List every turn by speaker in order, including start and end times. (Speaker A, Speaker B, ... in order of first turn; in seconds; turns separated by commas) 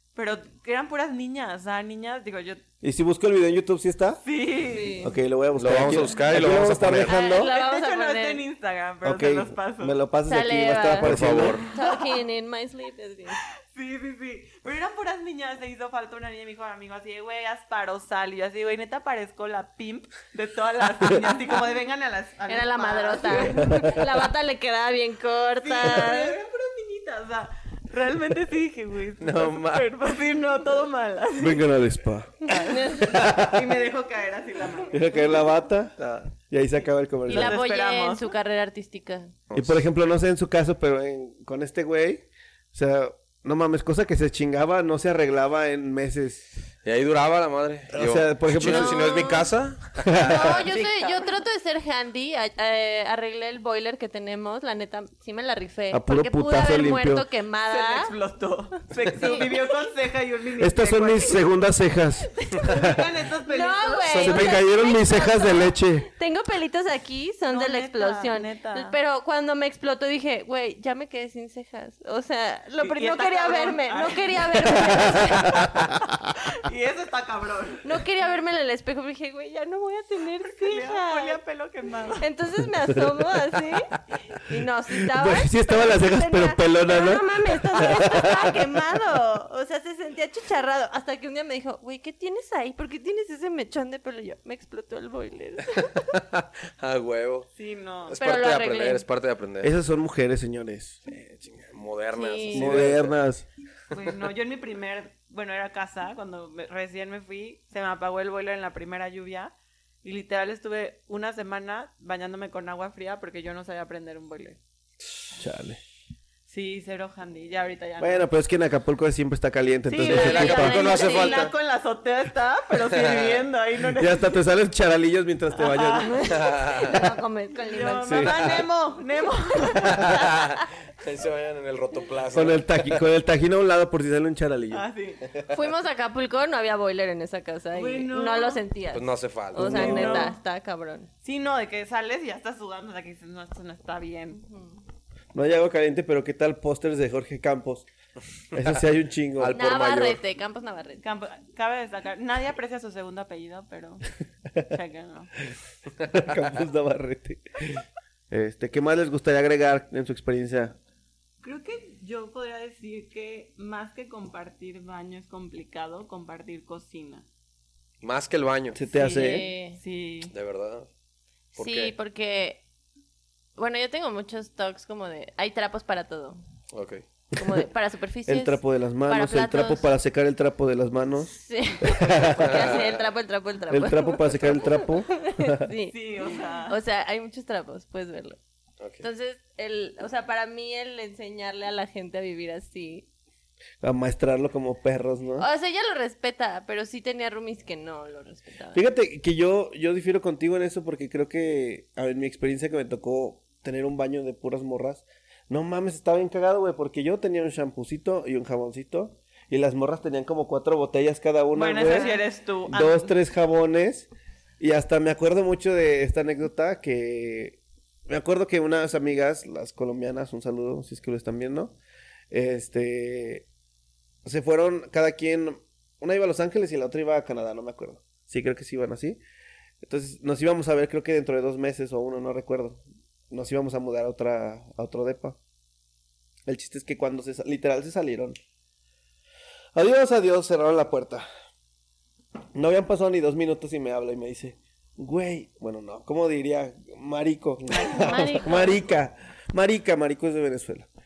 Speaker A: 0.1-2.6, Speaker B: 2.8-4.2, Speaker A: 4.2-5.1, Speaker C: 4.6-5.1, Speaker B: 5.0-7.5, Speaker D: 5.5-7.1, Speaker C: 7.1-8.4, Speaker A: 7.3-9.9, Speaker B: 9.0-11.6, Speaker C: 10.3-13.4, Speaker D: 11.0-11.6, Speaker A: 11.7-12.2, Speaker A: 13.7-24.1, Speaker C: 22.5-26.4, Speaker B: 23.6-24.0, Speaker A: 25.6-31.7, Speaker D: 29.2-29.9, Speaker B: 31.4-32.3, Speaker A: 32.5-35.2, Speaker C: 32.5-33.4, Speaker B: 33.1-33.8, Speaker B: 34.9-37.6, Speaker D: 36.0-36.3, Speaker A: 37.3-38.3, Speaker C: 37.3-39.3, Speaker D: 39.5-39.8, Speaker B: 39.5-46.5, Speaker D: 46.8-50.5, Speaker B: 47.9-49.2, Speaker C: 48.5-49.5, Speaker B: 50.0-50.6, Speaker C: 50.1-58.1, Speaker A: 50.7-51.3, Speaker B: 55.9-57.2, Speaker A: 57.7-61.4, Speaker C: 58.9-59.7, Speaker B: 60.6-63.0, Speaker C: 62.3-62.9, Speaker A: 62.6-64.4, Speaker C: 63.5-75.7, Speaker B: 64.1-66.1, Speaker D: 64.2-64.6, Speaker A: 67.5-69.0, Speaker A: 72.8-75.2, Speaker B: 75.2-75.9, Speaker A: 76.5-77.9, Speaker C: 77.8-81.4, Speaker A: 80.6-82.2, Speaker C: 82.2-96.1, Speaker B: 82.9-83.2, Speaker B: 85.1-88.6, Speaker D: 96.0-97.5, Speaker A: 97.5-98.2, Speaker D: 98.1-99.7, Speaker C: 98.1-99.0, Speaker B: 99.6-101.0, Speaker D: 101.1-103.2, Speaker C: 102.1-102.9, Speaker B: 102.5-103.4, Speaker A: 103.9-114.6, Speaker B: 115.3-115.8, Speaker A: 116.5-118.2, Speaker B: 118.0-121.1, Speaker A: 119.9-124.4, Speaker D: 120.0-121.5, Speaker C: 120.1-121.5, Speaker B: 124.0-126.1, Speaker A: 125.5-126.3, Speaker C: 126.0-128.7, Speaker D: 126.3-127.0, Speaker A: 127.7-130.2, Speaker B: 128.0-128.5, Speaker D: 129.9-133.0, Speaker B: 132.3-134.8, Speaker A: 134.7-135.2, Speaker C: 135.5-141.1, Speaker A: 137.7-138.6, Speaker D: 138.9-139.7, Speaker B: 139.5-140.3, Speaker A: 139.6-140.4, Speaker A: 141.2-144.4, Speaker C: 144.4-144.8, Speaker B: 145.3-147.8, Speaker B: 148.5-149.6, Speaker D: 149.4-150.2, Speaker C: 149.6-151.1, Speaker A: 151.0-154.1, Speaker A: 154.6-155.3, Speaker B: 156.0-157.4, Speaker B: 158.3-160.8, Speaker A: 161.4-167.2, Speaker D: 168.0-168.8, Speaker B: 168.7-169.5, Speaker A: 168.9-170.3, Speaker C: 168.9-169.8, Speaker D: 170.3-170.9, Speaker C: 171.5-172.6, Speaker D: 171.6-171.9, Speaker C: 173.6-176.4, Speaker D: 176.7-177.0, Speaker C: 177.3-179.9, Speaker B: 178.3-182.6, Speaker C: 181.3-188.4, Speaker D: 182.4-182.9, Speaker B: 183.7-185.7, Speaker A: 185.9-186.8, Speaker D: 188.8-189.1, Speaker C: 189.0-193.1, Speaker B: 193.8-195.5, Speaker C: 195.4-198.8, Speaker B: 198.7-212.2, Speaker A: 211.5-213.1, Speaker C: 211.8-212.2, Speaker B: 212.7-221.8, Speaker B: 222.3-223.5, Speaker B: 224.2-229.2, Speaker B: 229.8-235.4, Speaker B: 236.5-238.3, Speaker B: 239.7-241.2, Speaker B: 242.5-250.9, Speaker A: 247.7-248.6, Speaker C: 247.8-248.8